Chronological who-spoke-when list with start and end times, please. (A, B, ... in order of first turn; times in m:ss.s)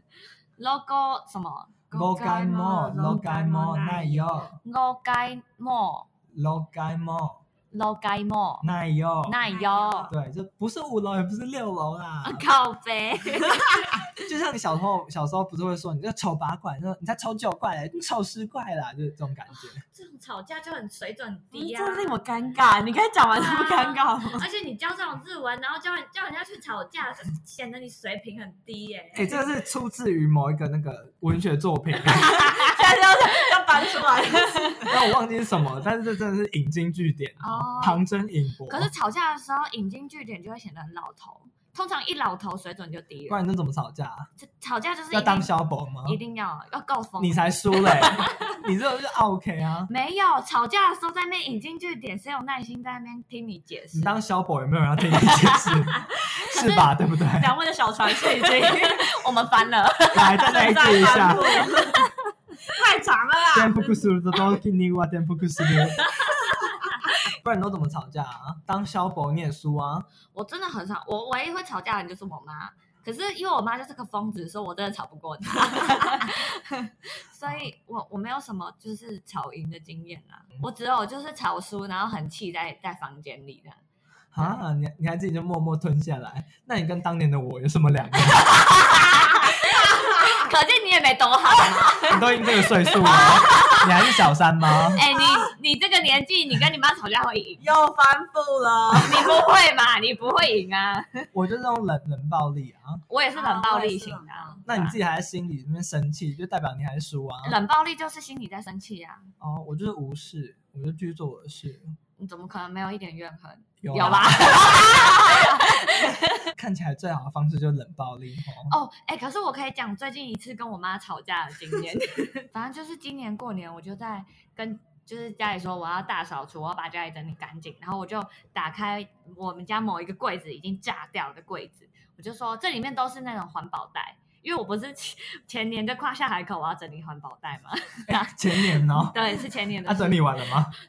0:00.6-0:02.8 A
0:01.9-0:04.6 B
0:02.2-0:04.5 C
0:04.6-0:06.1 A
0:06.3-0:07.4 B
0:07.7-0:08.7 A
0:08.6-0:09.4 B
0:09.3-0:10.1 A
0:09.5-0:10.1 C
0:10.1-0:12.5 B
0:12.2-0:14.0 A
0:14.2-0:19.8 B
0:19.9-0:22.2 A
0:21.5-0:24.4 C
0:23.4-0:29.4 A
0:29.1-0:32.4 B
0:32.1-0:35.0 C
0:32.3-0:32.8 A
0:34.4-0:34.9 A
0:34.9-0:38.9 B
0:37.4-0:38.0 A
0:38.7-0:43.4 A
0:43.3-0:44.3 B
0:44.4-0:45.5 A
0:45.1-0:46.2 B
0:46.0-0:48.6 A
0:47.2-0:49.9 B
0:49.9-0:54.2 A
0:53.9-0:57.6 B
0:55.2-0:56.0 A
0:56.5-0:56.9 A
0:57.3-0:59.2 C
0:58.3-1:02.1 A
1:00.1-1:01.7 B
1:00.2-1:02.1 C
1:02.6-1:04.1 C
1:03.5-1:06.1 B
1:06.0-1:06.6 A
1:07.3-1:10.1 B
1:10.3-1:23.8 A
1:24.3-1:28.7 B
1:28.7-1:33.9 A
1:32.0-1:35.1 B
1:33.1-1:33.9 C
1:34.9-1:37.6 A
1:35.1-1:35.5 C
1:37.6-1:39.4 C
1:38.9-1:41.3 A
1:41.3-1:43.0 B
1:43.1-1:45.0 A
1:43.3-1:44.6 C
1:44.7-1:47.6 B
1:47.4-1:49.3 A
1:49.4-1:52.0 B
1:52.2-1:56.5 A
1:53.8-1:55.3 B
1:56.0-1:58.7 B
1:58.7-2:20.6 A
2:18.1-2:20.7 B